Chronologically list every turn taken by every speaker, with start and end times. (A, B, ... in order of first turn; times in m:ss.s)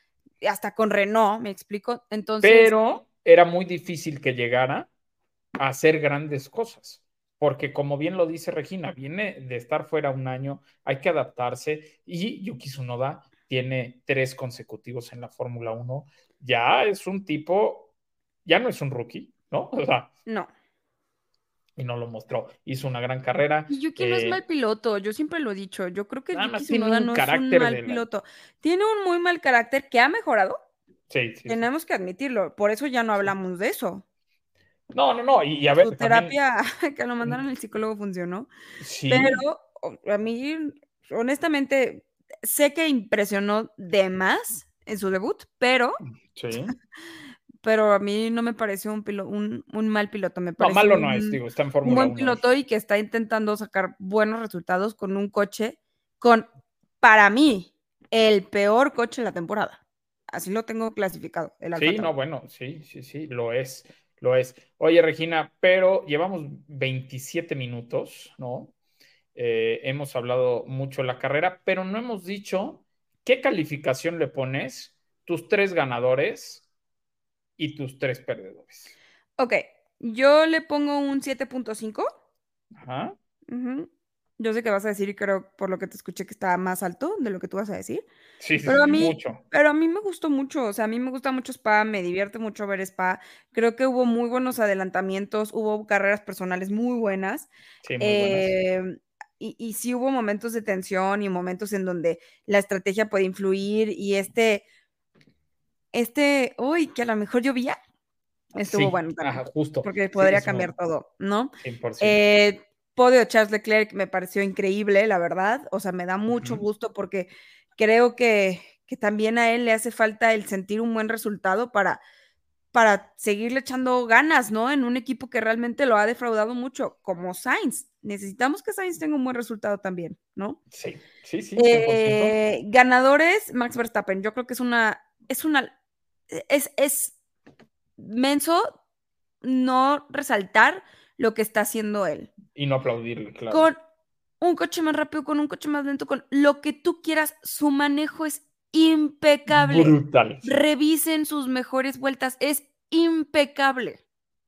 0:00.4-0:02.7 A
0:02.4-0:04.9 B
0:05.6-0:17.9 B
0:18.4-0:20.1 B
0:21.8-0:24.4 B
0:23.7-0:30.6 A
0:26.3-0:28.0 B
0:31.1-0:31.6 B
0:31.5-0:34.0 A
0:34.9-0:36.3 B
0:35.8-0:38.5 A
0:38.8-0:39.4 B
0:39.1-0:46.0 A
0:46.0-0:46.7 B
0:47.6-0:56.5 A
0:50.6-0:52.4 B
0:57.0-1:02.1 A
1:01.7-1:08.7 B
1:09.3-1:16.6 B
1:17.6-1:18.9 B
1:19.4-1:22.1 A
1:22.7-1:23.2 B
1:23.5-1:28.0 A
1:28.4-1:29.4 B
1:28.6-1:44.6 A
1:37.8-1:38.5 B
1:45.9-1:47.8 A
1:48.5-2:02.0 A
1:48.6-1:50.7 B
1:51.6-1:52.2 B
1:56.3-1:56.6 B
2:02.7-2:10.6 A
2:10.7-2:12.4 B
2:11.6-2:15.7 A
2:16.3-2:17.1 A
2:18.0-2:18.7 A
2:19.4-2:22.3 A
2:22.5-2:23.7 B
2:23.5-2:23.8 A
2:24.4-2:34.0 A
2:29.5-2:30.5 B